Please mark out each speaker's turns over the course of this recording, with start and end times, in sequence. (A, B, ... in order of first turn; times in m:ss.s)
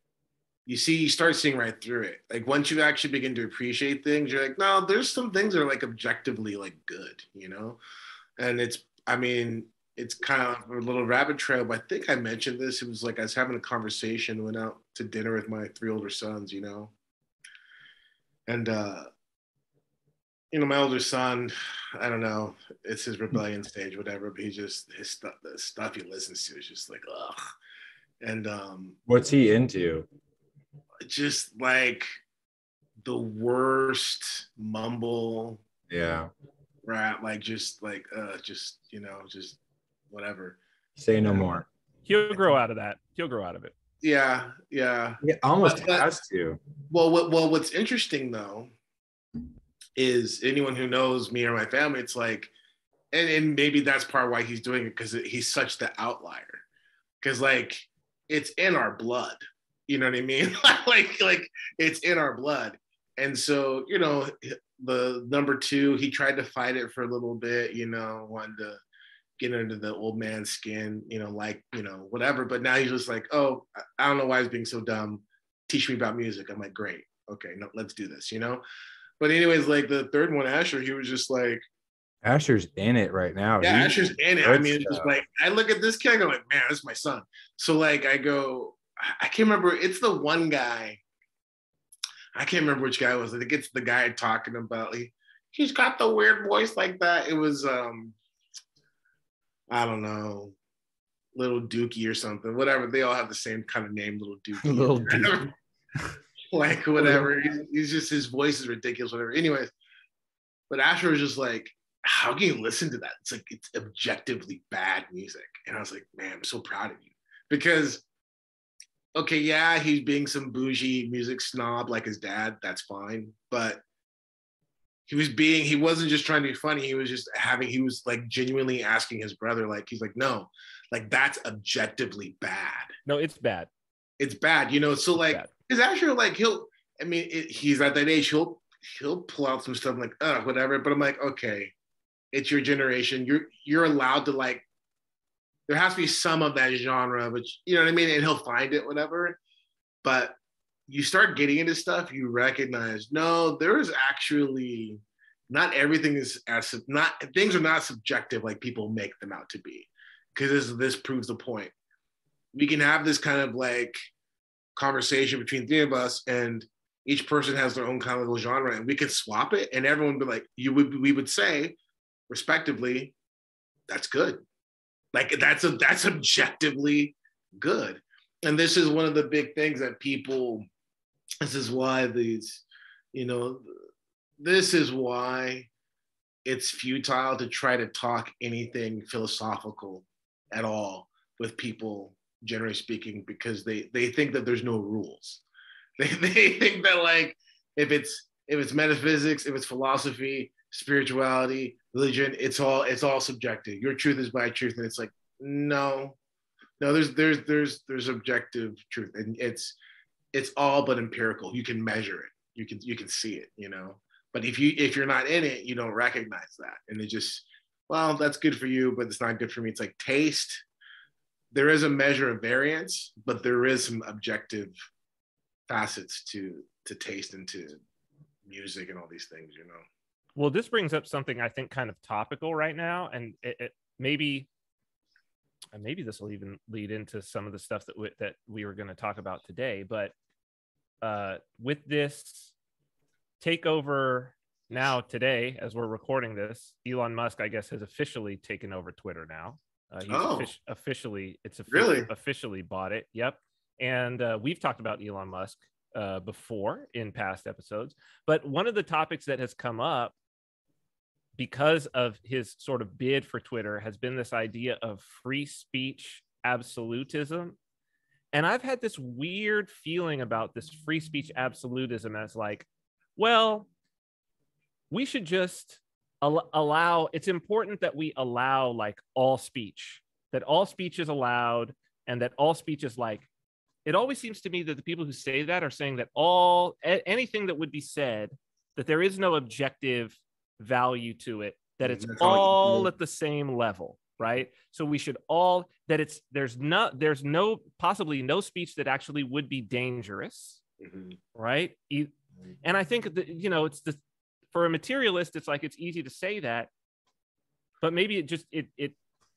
0:00.6-0:07.8 A
0:08.4-0:16.9 A
0:18.5-0:19.1 A
0:20.5-0:27.4 A
0:28.2-0:29.0 A
0:29.1-0:30.1 B
0:31.0-0:32.1 A
0:33.0-0:35.6 A
0:35.9-0:36.3 B
0:36.8-0:39.6 A
0:40.1-0:40.6 A
0:41.0-0:41.6 B
0:41.2-0:41.6 A
0:42.0-0:43.8 C
0:44.0-0:46.1 A
0:45.2-0:46.6 B
0:46.9-0:48.7 A
0:50.0-0:52.5 A
0:53.1-0:56.6 A
0:57.2-1:08.8 A
1:09.4-1:18.6 A
1:19.2-1:21.6 A
1:22.2-1:25.1 B
1:23.6-1:31.0 A
1:32.4-1:38.2 A
1:39.7-1:40.5 A
1:41.4-1:45.5 A
1:44.6-1:45.5 B
1:46.5-1:49.7 A
1:47.0-1:47.4 B
1:50.7-1:58.0 A
1:59.2-2:03.8 A
2:05.1-2:12.9 A
2:13.0-2:13.7 C
2:14.2-2:21.7 A
2:15.1-2:15.5 C
2:22.3-2:24.6 A
2:25.7-2:29.4 A
2:30.0-2:30.4 A
2:30.9-2:41.7 A
2:42.5-2:44.0 A
2:44.8-2:51.8 A
2:52.3-2:53.1 A
2:53.9-2:54.4 A
2:55.1-3:00.6 A
3:01.4-3:03.7 A
3:04.4-3:05.7 A
3:06.4-3:15.4 A
3:16.0-3:26.2 A
3:26.8-3:29.8 A
3:30.3-3:40.6 A
3:41.5-3:44.7 A
3:45.7-3:47.8 A
3:48.5-3:49.8 A
3:50.4-3:54.5 C
3:55.7-4:00.1 C
4:01.0-4:02.5 C
4:03.4-4:20.1 C
4:10.1-4:10.5 A
4:11.7-4:12.1 A
4:21.4-4:27.6 C
4:28.3-4:33.7 C
4:34.9-4:43.3 C
4:43.8-5:00.6 C
4:51.8-4:52.9 A
5:00.8-5:01.2 A
5:01.4-5:02.1 C
5:02.6-5:04.0 C
5:04.5-5:06.7 C
5:07.8-5:09.0 C